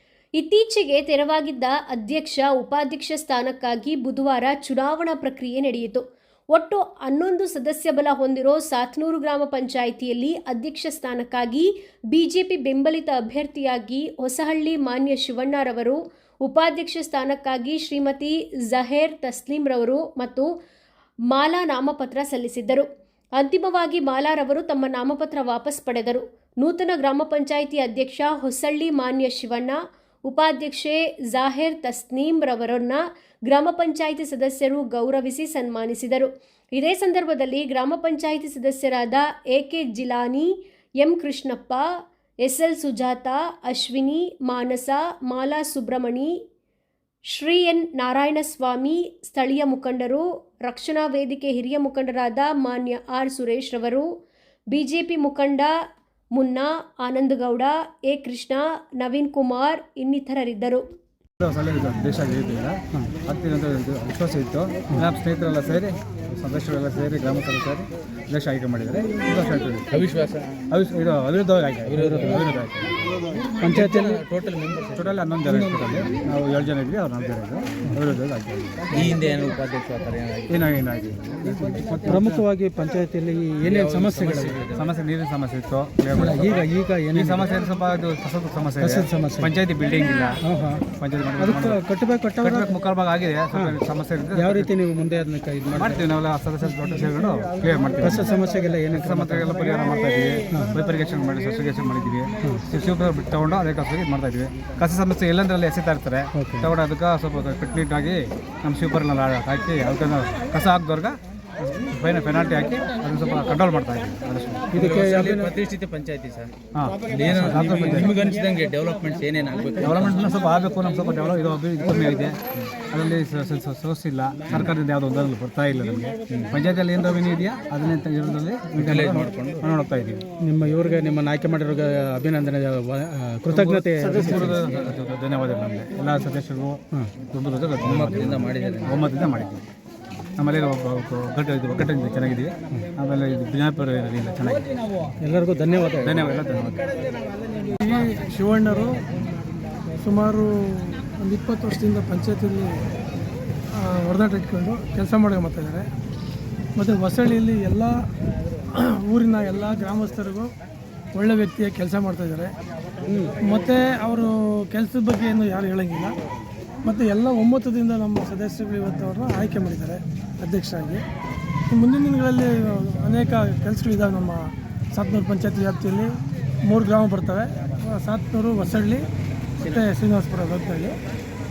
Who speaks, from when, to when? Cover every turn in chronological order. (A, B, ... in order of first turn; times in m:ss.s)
0:00.4-0:20.5 A
0:21.3-0:46.4 A
0:47.3-0:54.2 A
0:54.7-0:55.8 A
0:56.3-1:00.9 A
1:01.4-1:09.9 B
1:09.9-1:10.6 C
1:10.7-1:13.0 B
1:11.9-1:12.3 C
1:12.0-1:12.4 D
1:13.6-1:14.2 D
1:13.6-1:15.1 C
1:15.0-1:19.1 B
1:18.9-1:20.6 C
1:20.5-1:22.4 B
1:22.0-1:24.6 D
1:23.6-1:24.9 C
1:24.8-1:30.4 B
1:26.1-1:27.4 D
1:28.8-1:29.5 D
1:30.4-1:30.9 D
1:30.9-1:31.8 B
1:31.4-1:32.7 D
1:32.4-1:34.7 B
1:34.3-1:36.0 D
1:35.8-1:38.3 B
1:38.0-1:39.5 D
1:38.9-1:54.7 B
1:46.4-1:46.7 D
1:54.7-1:55.6 D
1:54.7-1:56.6 C
1:56.7-1:58.2 B
1:57.1-2:00.3 C
1:59.8-2:10.2 B
2:06.3-2:06.6 C
2:08.8-2:09.7 C
2:10.4-2:14.6 D
2:13.5-2:19.7 B
2:17.8-2:19.0 C
2:20.4-2:24.7 B
2:25.2-2:26.2 D
2:26.0-2:26.8 B
2:27.8-2:29.0 E
2:30.0-2:32.8 E
2:33.7-2:35.9 E
2:36.8-2:38.0 E
2:38.7-2:40.5 E
2:41.2-2:42.5 E
2:43.1-2:43.4 D
2:43.4-2:46.2 E
2:46.8-2:51.0 E
2:51.7-2:56.1 E
2:56.7-2:59.1 E
2:59.6-3:01.0 E